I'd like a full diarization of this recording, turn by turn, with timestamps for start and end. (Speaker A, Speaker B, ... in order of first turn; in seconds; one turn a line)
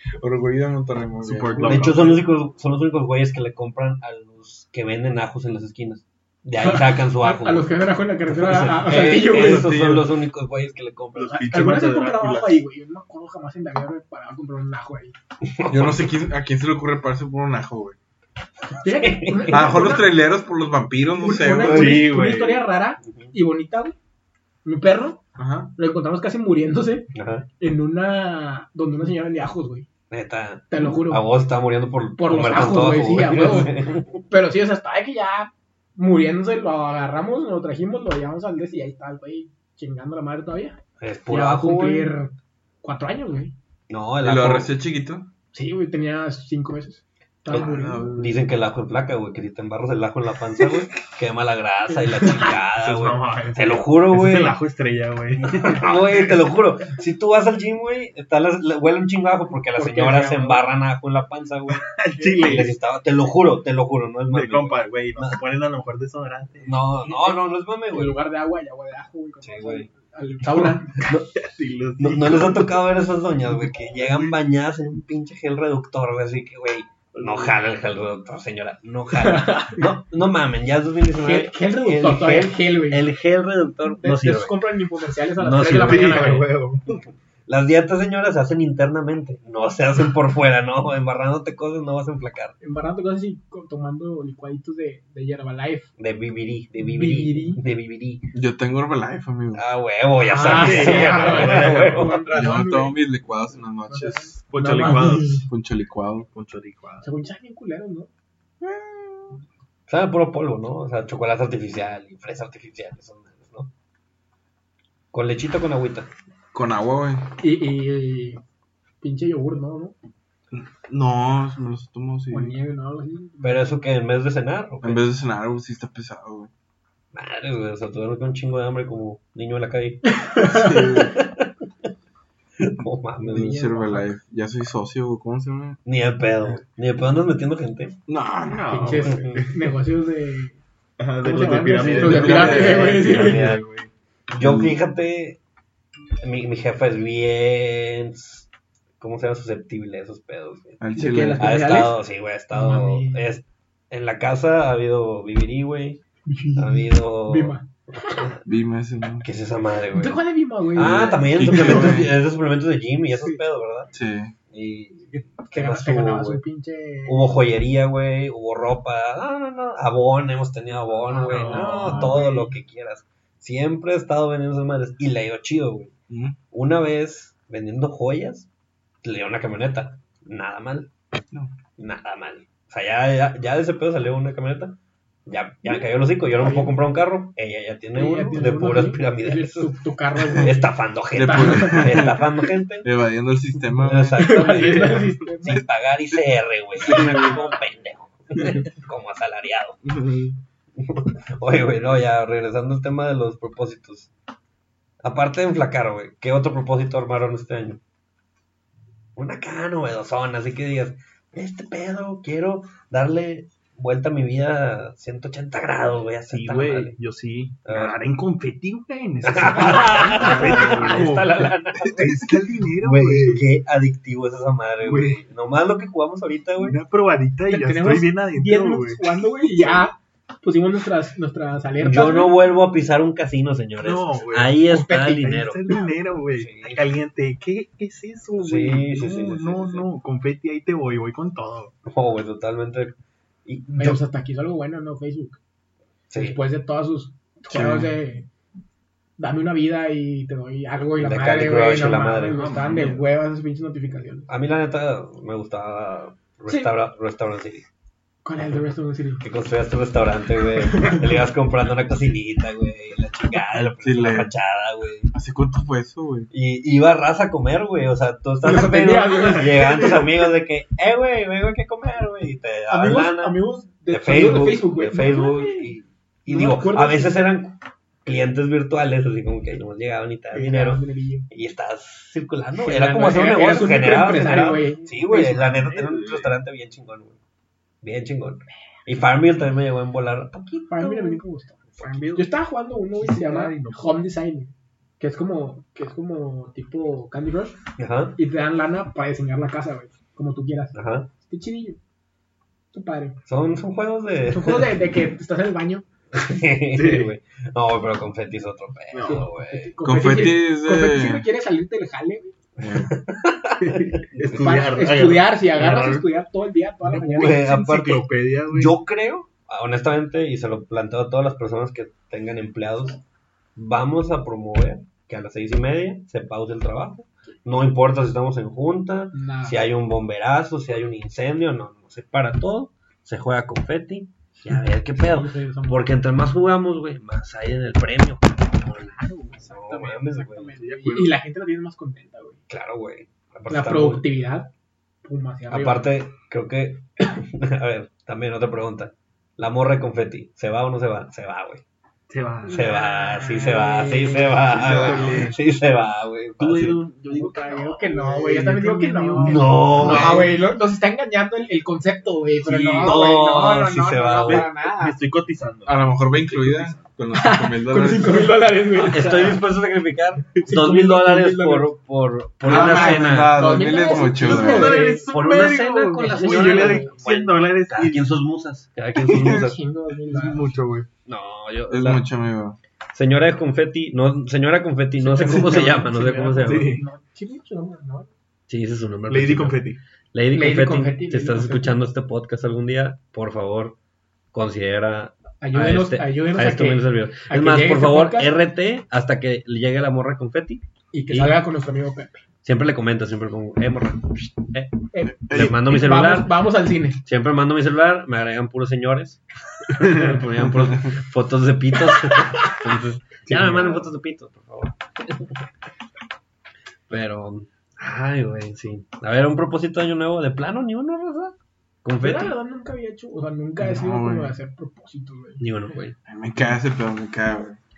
Speaker A: 0.2-2.0
Speaker B: 1.2-2.3
Speaker C: 1.6-7.7
Speaker D: 6.6-9.7
Speaker C: 8.3-11.5
Speaker A: 9.3-10.1
Speaker B: 11.1-12.6
Speaker D: 11.3-15.1
Speaker C: 15.4-16.1
Speaker A: 15.7-18.0
Speaker D: 18.8-20.1
Speaker C: 18.8-20.0
Speaker A: 19.5-22.1
Speaker D: 21.2-23.9
Speaker B: 21.6-22.6
Speaker C: 23.1-23.3
Speaker D: 24.6-25.2
Speaker A: 25.4-25.7
Speaker D: 25.8-29.9
Speaker C: 27.1-27.5
Speaker C: 30.1-34.2
Speaker D: 30.7-31.2
Speaker D: 32.2-40.8
Speaker C: 41.0-42.1
Speaker D: 41.3-43.5
Speaker C: 43.9-44.7
Speaker A: 44.2-45.3
Speaker D: 45.5-48.1
Speaker C: 47.5-54.6
Speaker A: 47.5-48.4
Speaker D: 51.9-52.5
Speaker B: 52.8-56.3
Speaker C: 55.4-61.9
Speaker D: 59.8-60.7
Speaker B: 61.8-62.8
Speaker D: 62.1-62.7
Speaker C: 62.4-65.4
Speaker B: 64.3-66.8
Speaker C: 66.6-68.2
Speaker D: 67.1-67.4
Speaker D: 67.9-71.0
Speaker C: 69.4-69.9
Speaker C: 71.0-71.3
Speaker B: 71.1-72.8
Speaker C: 72.0-84.6
Speaker B: 73.5-74.3
Speaker B: 77.1-77.6
Speaker D: 79.1-79.8
Speaker D: 81.2-83.0
Speaker D: 83.8-86.5
Speaker C: 85.4-86.5
Speaker B: 85.6-87.0
Speaker C: 87.5-92.5
Speaker D: 92.6-95.9
Speaker C: 96.0-98.2
Speaker D: 96.8-97.6
Speaker A: 98.3-99.6
Speaker C: 99.5-102.3
Speaker D: 100.2-103.0
Speaker B: 100.4-102.2
Speaker A: 102.3-104.3
Speaker D: 103.9-105.5
Speaker B: 104.5-105.5
Speaker A: 105.5-106.3
Speaker B: 106.3-107.0
Speaker D: 107.0-108.1
Speaker A: 108.6-109.2
Speaker C: 109.9-113.7
Speaker C: 115.1-116.1
Speaker A: 116.5-117.3
Speaker D: 117.4-118.4
Speaker D: 119.0-120.0
Speaker A: 120.5-122.5
Speaker D: 122.3-123.6
Speaker C: 123.4-125.0
Speaker A: 124.8-126.5
Speaker C: 127.1-131.5
Speaker D: 130.1-130.9
Speaker A: 130.4-131.2
Speaker C: 132.6-133.6
Speaker D: 133.2-134.1
Speaker A: 133.3-135.8
Speaker C: 135.8-138.0
Speaker A: 138.1-139.1
Speaker B: 138.4-139.6
Speaker D: 138.7-140.6
Speaker C: 139.1-139.4
Speaker B: 141.0-143.9
Speaker D: 141.2-143.5
Speaker A: 141.8-143.2
Speaker C: 141.8-143.6
Speaker C: 144.3-145.4
Speaker A: 144.4-144.8
Speaker C: 146.2-148.5
Speaker C: 149.0-150.8
Speaker A: 150.8-151.5
Speaker D: 150.9-153.3
Speaker C: 151.4-156.0
Speaker D: 156.2-158.2
Speaker C: 156.6-158.4
Speaker A: 158.4-159.2
Speaker C: 159.2-160.2
Speaker D: 159.9-161.9
Speaker C: 160.7-163.9
Speaker A: 160.8-162.2
Speaker A: 163.9-164.3
Speaker C: 164.5-166.4
Speaker D: 165.2-167.3
Speaker C: 167.1-175.9
Speaker D: 171.1-172.5
Speaker B: 171.1-172.2
Speaker A: 176.1-176.4
Speaker C: 176.5-178.5
Speaker C: 179.0-180.9
Speaker C: 181.8-189.7
Speaker D: 186.4-186.7
Speaker D: 187.9-190.7
Speaker C: 190.3-192.9
Speaker A: 191.1-192.3
Speaker D: 191.2-192.1
Speaker A: 192.8-194.7
Speaker C: 193.8-199.8
Speaker D: 194.2-195.6
Speaker A: 196.8-197.4
Speaker A: 199.8-200.3
Speaker C: 200.8-204.1
Speaker C: 205.0-207.8
Speaker C: 209.2-217.0
Speaker B: 216.3-223.4
Speaker C: 217.6-218.0
Speaker C: 219.2-226.8
Speaker B: 224.8-225.2
Speaker B: 226.6-229.9
Speaker D: 227.5-232.3
Speaker C: 231.8-235.7
Speaker B: 233.8-241.7
Speaker D: 234.7-235.2
Speaker C: 236.3-236.8
Speaker C: 238.4-239.9
Speaker C: 241.8-242.9
Speaker C: 243.4-244.0
Speaker D: 243.7-245.4
Speaker C: 246.1-246.4
Speaker D: 246.1-248.3
Speaker A: 247.5-247.9
Speaker D: 249.2-254.3
Speaker C: 251.0-252.5
Speaker B: 252.3-253.0
Speaker C: 254.3-257.6
Speaker D: 256.5-256.7
Speaker D: 258.2-259.2
Speaker C: 259.2-265.1
Speaker D: 260.6-261.2
Speaker A: 263.8-264.3
Speaker A: 265.1-266.3
Speaker C: 266.3-287.2
Speaker D: 268.4-270.0
Speaker B: 269.2-269.8
Speaker D: 272.7-275.7
Speaker D: 276.3-277.2
Speaker D: 280.3-281.3
Speaker D: 282.6-285.4
Speaker B: 285.3-286.3
Speaker C: 287.8-291.2
Speaker D: 290.7-297.6
Speaker C: 291.7-292.2
Speaker B: 291.8-292.2
Speaker B: 293.0-293.9
Speaker C: 297.8-298.2
Speaker D: 298.2-301.8
Speaker C: 300.7-301.1
Speaker D: 302.7-303.2
Speaker C: 303.3-304.8
Speaker D: 304.3-305.8
Speaker C: 306.1-309.7
Speaker B: 306.7-307.1
Speaker B: 308.9-309.2
Speaker D: 309.0-312.3
Speaker A: 309.8-311.2
Speaker C: 312.6-314.5
Speaker A: 312.6-312.9
Speaker B: 313.6-316.1
Speaker D: 314.3-317.4
Speaker B: 316.8-318.8
Speaker C: 317.1-323.0
Speaker C: 323.6-340.6
Speaker D: 329.1-329.6
Speaker D: 334.9-335.9
Speaker D: 338.7-342.4
Speaker B: 340.6-341.1
Speaker C: 342.5-344.0
Speaker D: 343.5-344.5
Speaker D: 345.0-345.9
Speaker C: 345.5-351.6
Speaker B: 352.1-352.7
Speaker D: 352.4-355.2
Speaker C: 352.5-356.8
Speaker B: 354.5-355.4
Speaker A: 354.6-355.1
Speaker B: 356.4-360.3
Speaker D: 357.1-365.0
Speaker C: 359.2-360.4
Speaker A: 359.9-360.1
Speaker B: 362.4-363.3
Speaker C: 362.8-364.5
Speaker B: 364.2-366.8
Speaker A: 365.6-368.4
Speaker D: 367.1-369.4
Speaker B: 368.8-369.4
Speaker C: 368.9-373.6
Speaker D: 370.4-371.7
Speaker A: 372.4-374.8
Speaker D: 372.4-375.1
Speaker B: 373.9-378.2
Speaker C: 374.7-379.6
Speaker D: 376.0-377.0
Speaker B: 379.0-379.5
Speaker D: 379.1-380.5
Speaker B: 380.1-380.9
Speaker C: 381.1-382.0
Speaker A: 381.7-382.6
Speaker C: 382.9-386.8
Speaker B: 385.0-386.8
Speaker D: 385.1-388.1
Speaker C: 388.5-393.8
Speaker B: 389.1-389.8
Speaker D: 390.3-391.8
Speaker C: 394.3-401.4
Speaker D: 395.4-398.4
Speaker D: 400.9-402.2
Speaker C: 402.4-406.3
Speaker D: 404.9-407.0
Speaker A: 405.2-405.5
Speaker C: 407.0-415.3
Speaker B: 409.8-410.2
Speaker A: 410.4-410.7
Speaker B: 413.2-413.8
Speaker C: 416.9-422.3
Speaker D: 422.0-425.4
Speaker A: 423.6-424.4
Speaker C: 425.4-426.0
Speaker A: 426.1-427.6